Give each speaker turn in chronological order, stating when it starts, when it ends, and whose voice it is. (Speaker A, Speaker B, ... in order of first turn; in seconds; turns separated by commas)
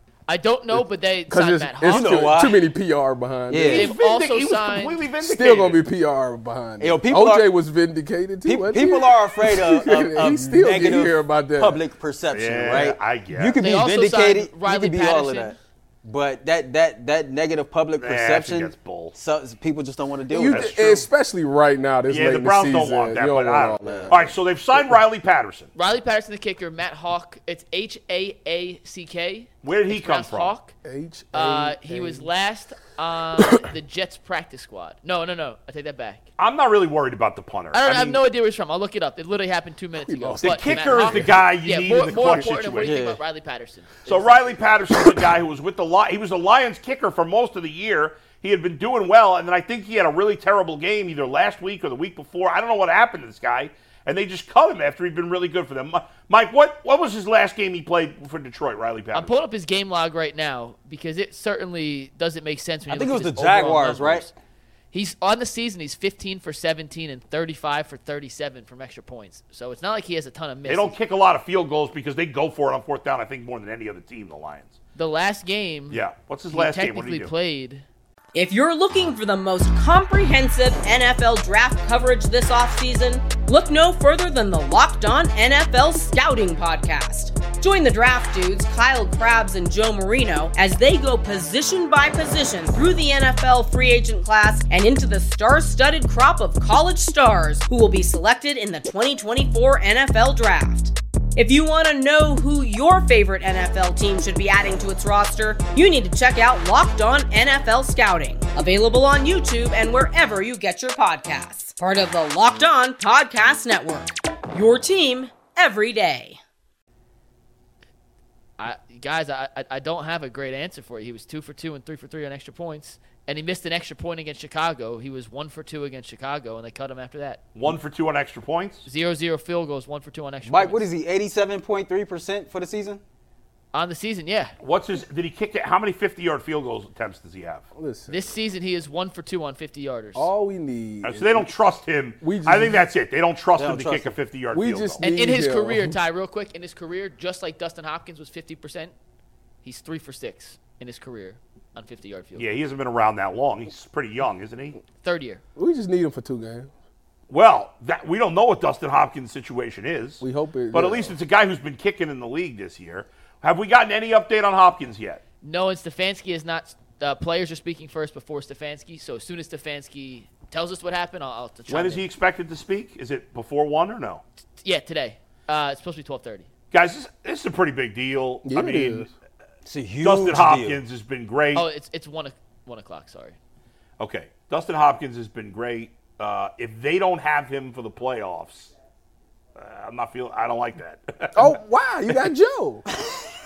Speaker A: 0.3-2.4, Speaker B: 0.7-3.9, Speaker C: 1.9-2.6, Speaker C: 3.5-3.9, Speaker D: 3.7-5.8, Speaker A: 3.7-5.0, Speaker B: 5.2-11.8, Speaker C: 6.8-7.5, Speaker C: 8.4-20.8, Speaker D: 12.3-13.6, Speaker A: 13.6-15.6, Speaker D: 18.0-19.1, Speaker B: 20.3-24.3, Speaker D: 20.5-21.0, Speaker D: 22.1-25.7, Speaker C: 23.8-24.3, Speaker A: 25.8-30.7, Speaker D: 29.6-30.5, Speaker B: 30.8-32.3, Speaker A: 31.3-36.2, Speaker B: 33.4-33.6, Speaker D: 36.4-38.2, Speaker A: 37.7-44.7, Speaker B: 40.0-41.4, Speaker D: 40.4-43.0, Speaker C: 42.8-43.2, Speaker D: 44.1-59.4, Speaker A: 59.1-64.3, Speaker C: 62.9-64.3, Speaker A: 64.9-71.0, Speaker D: 70.7-74.8, Speaker A: 75.0-77.8, Speaker D: 75.9-77.3, Speaker E: 78.3-116.4, Speaker A: 118.6-127.4, Speaker D: 127.5-128.9, Speaker A: 128.9-130.8, Speaker C: 130.5-133.0, Speaker A: 133.7-134.5, Speaker D: 134.6-137.7, Speaker B: 137.8-138.4, Speaker A: 138.1-140.3, Speaker B: 140.2-141.5, Speaker D: 141.0-145.0, Speaker B: 142.2-142.8, Speaker C: 143.6-144.2, Speaker B: 144.5-146.0, Speaker A: 145.0-148.9, Speaker A: 149.6-152.5, Speaker D: 152.4-154.8, Speaker A: 155.0-155.4, Speaker B: 155.6-156.7, Speaker D: 157.3-165.2, Speaker B: 160.2-161.2, Speaker A: 165.4-172.1, Speaker D: 171.7-174.2, Speaker A: 174.6-176.5, Speaker D: 176.7-179.1, Speaker B: 178.4-179.1, Speaker C: 179.7-180.8, Speaker D: 180.0-181.7, Speaker A: 181.5-183.4, Speaker D: 184.0-188.7, Speaker D: 189.6-191.5, Speaker B: 191.3-192.8